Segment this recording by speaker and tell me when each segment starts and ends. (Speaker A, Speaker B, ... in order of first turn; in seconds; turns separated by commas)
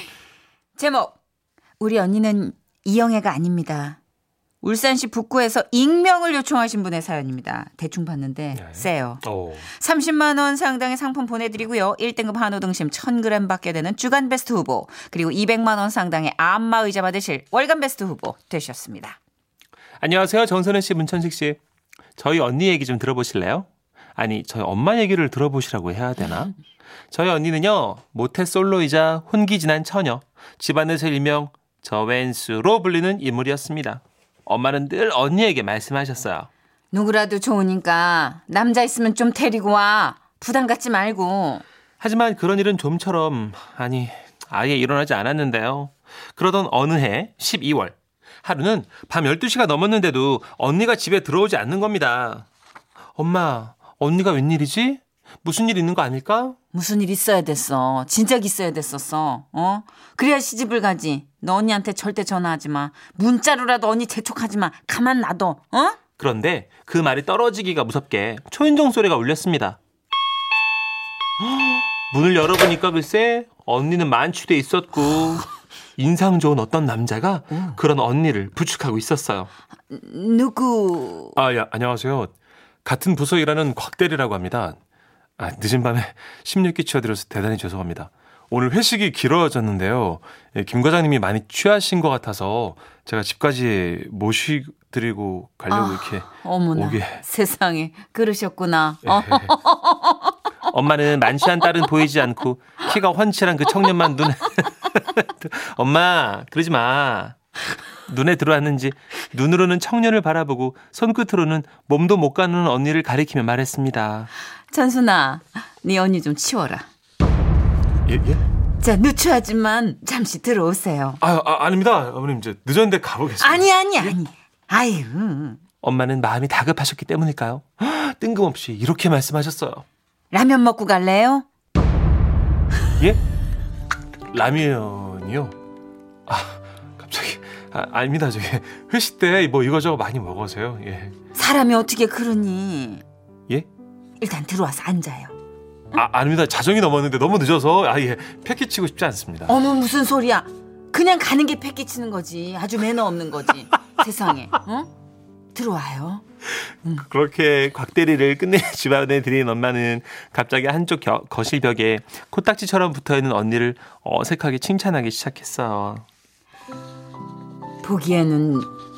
Speaker A: 0.8-1.2, Speaker A: 1.8-4.0, Speaker A: 4.6-19.2, Speaker B: 8.6-9.7, Speaker B: 20.0-21.6, Speaker B: 22.2-26.6, Speaker B: 27.1-36.5, Speaker A: 36.9-41.6, Speaker B: 42.0-52.5, Speaker B: 53.2-56.6, Speaker A: 56.7-66.0, Speaker B: 66.2-69.8, Speaker B: 71.4-79.5, Speaker A: 79.9-81.4, Speaker B: 81.3-82.3, Speaker B: 82.8-84.8, Speaker B: 85.4-97.2, Speaker A: 95.7-100.4, Speaker B: 99.0-99.6, Speaker B: 100.7-107.4, Speaker B: 108.1-114.3, Speaker A: 114.7-116.9, Speaker B: 118.1-118.4, Speaker A: 118.8-121.2, Speaker B: 121.2-124.2, Speaker A: 123.4-125.6, Speaker B: 125.8-129.8, Speaker A: 130.3-131.5, Speaker B: 134.3-135.6, Speaker B: 136.3-141.2, Speaker A: 141.3-143.0, Speaker A: 144.2-145.3, Speaker B: 145.9-149.6, Speaker A: 149.5-154.9, Speaker A: 155.5-156.2, Speaker B: 156.8-166.1, Speaker A: 167.8-168.7